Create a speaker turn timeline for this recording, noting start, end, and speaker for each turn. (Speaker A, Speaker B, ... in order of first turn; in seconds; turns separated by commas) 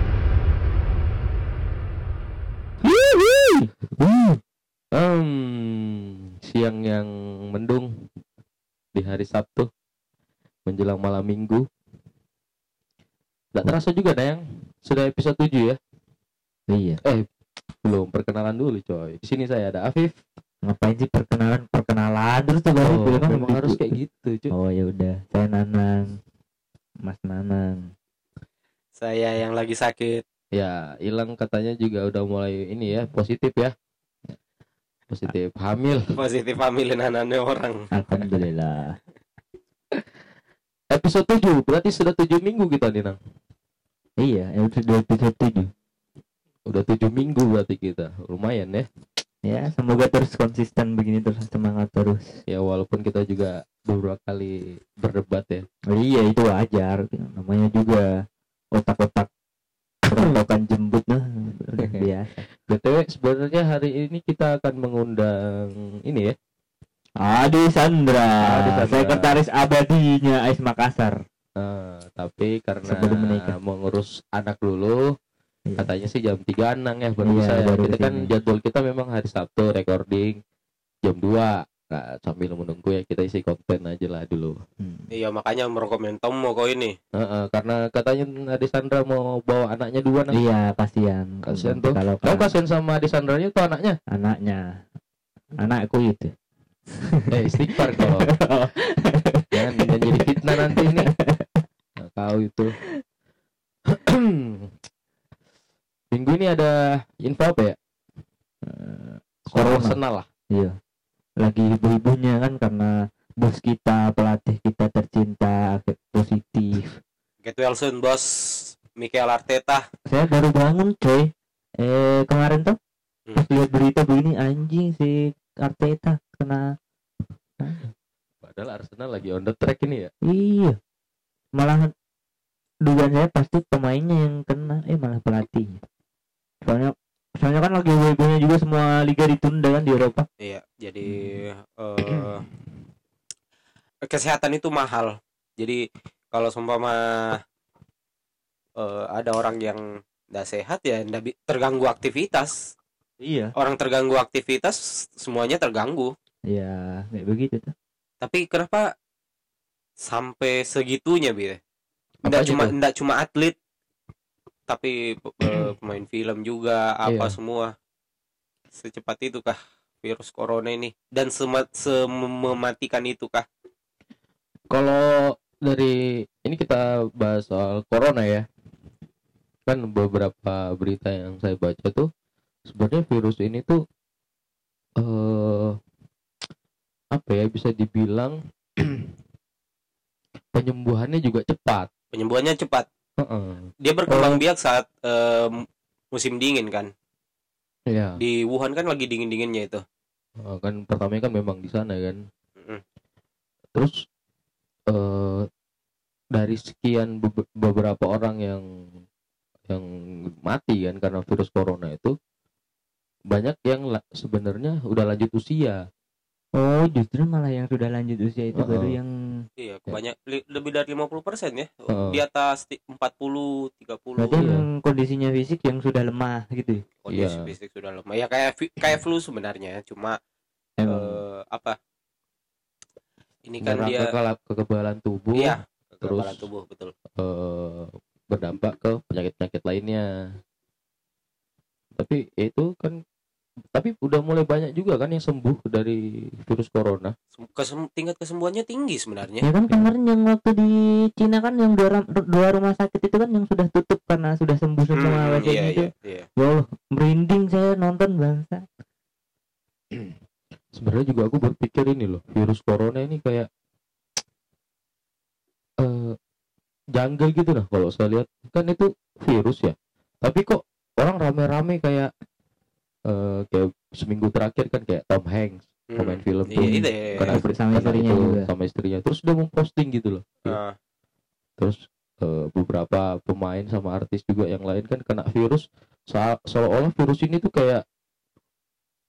Speaker A: 2.8-4.4, Speaker B: 4.9-8.1, Speaker B: 8.9-9.7, Speaker B: 10.7-11.6, Speaker B: 13.5-15.8, Speaker A: 16.7-17.0, Speaker B: 17.8-20.1, Speaker A: 20.6-24.0, Speaker B: 22.8-24.5, Speaker A: 24.5-26.2, Speaker A: 27.0-27.9, Speaker C: 29.0-30.2, Speaker B: 30.5-33.7, Speaker B: 35.1-36.1, Speaker C: 36.1-37.9, Speaker A: 37.9-39.0, Speaker B: 40.9-43.2, Speaker A: 44.2-45.7, Speaker B: 46.7-48.9, Speaker A: 49.4-52.4, Speaker B: 52.5-55.6, Speaker A: 55.9-58.1, Speaker A: 58.7-59.3, Speaker A: 60.1-62.4, Speaker B: 62.7-66.3, Speaker A: 67.2-71.2, Speaker B: 68.4-69.4, Speaker B: 71.6-75.1, Speaker A: 72.9-73.5, Speaker B: 75.8-80.4, Speaker A: 77.2-78.3, Speaker B: 81.0-84.6, Speaker A: 84.8-85.1, Speaker C: 85.1-87.0, Speaker B: 87.2-90.4, Speaker A: 90.3-92.5, Speaker B: 91.4-94.0, Speaker A: 94.1-94.7, Speaker A: 95.6-96.3, Speaker A: 97.0-101.6, Speaker B: 97.3-98.3, Speaker B: 99.5-101.1, Speaker B: 102.0-102.7, Speaker B: 103.9-104.7, Speaker B: 106.1-107.8, Speaker A: 108.6-110.0, Speaker B: 109.5-110.3, Speaker A: 111.4-117.0, Speaker C: 117.4-119.8, Speaker A: 120.1-121.3, Speaker A: 121.8-122.8, Speaker A: 123.3-126.6, Speaker B: 128.4-130.1, Speaker A: 130.3-130.8, Speaker A: 131.6-131.9, Speaker A: 132.8-135.8, Speaker A: 136.6-140.3, Speaker C: 140.4-142.4, Speaker C: 144.1-147.4, Speaker C: 148.8-152.6, Speaker A: 153.2-153.5, Speaker C: 153.6-156.1, Speaker A: 156.5-157.7, Speaker C: 158.2-158.9, Speaker C: 160.0-161.6, Speaker B: 162.2-162.7, Speaker C: 162.3-163.6, Speaker C: 164.7-167.7, Speaker B: 167.1-167.3, Speaker C: 168.7-173.4, Speaker B: 174.7-178.4, Speaker B: 179.7-182.1, Speaker B: 182.7-183.8, Speaker B: 185.0-185.8, Speaker B: 187.1-189.1, Speaker B: 190.5-191.9, Speaker C: 192.1-192.9, Speaker B: 193.2-194.4, Speaker C: 193.8-196.9, Speaker B: 197.9-198.2, Speaker C: 198.2-199.8, Speaker B: 200.4-202.2, Speaker B: 204.9-205.5, Speaker B: 206.3-208.6, Speaker B: 210.4-212.2, Speaker B: 213.3-215.8, Speaker A: 216.6-219.5, Speaker B: 218.5-218.9, Speaker C: 219.6-224.4, Speaker B: 221.9-222.2, Speaker A: 224.2-226.8, Speaker B: 224.3-224.7, Speaker C: 227.0-230.2, Speaker B: 227.1-227.5, Speaker A: 230.8-231.2, Speaker C: 230.9-231.8, Speaker C: 233.4-234.1, Speaker B: 233.6-236.5, Speaker C: 235.3-236.9, Speaker B: 237.1-240.4, Speaker B: 241.9-243.0, Speaker B: 243.7-247.1, Speaker C: 247.4-249.4, Speaker A: 249.4-258.6, Speaker C: 254.9-256.3, Speaker B: 260.8-263.5, Speaker B: 265.8-266.2, Speaker B: 266.9-272.1, Speaker B: 273.1-280.6, Speaker C: 275.9-277.4, Speaker A: 276.6-278.5, Speaker C: 280.4-280.8, Speaker B: 281.6-287.8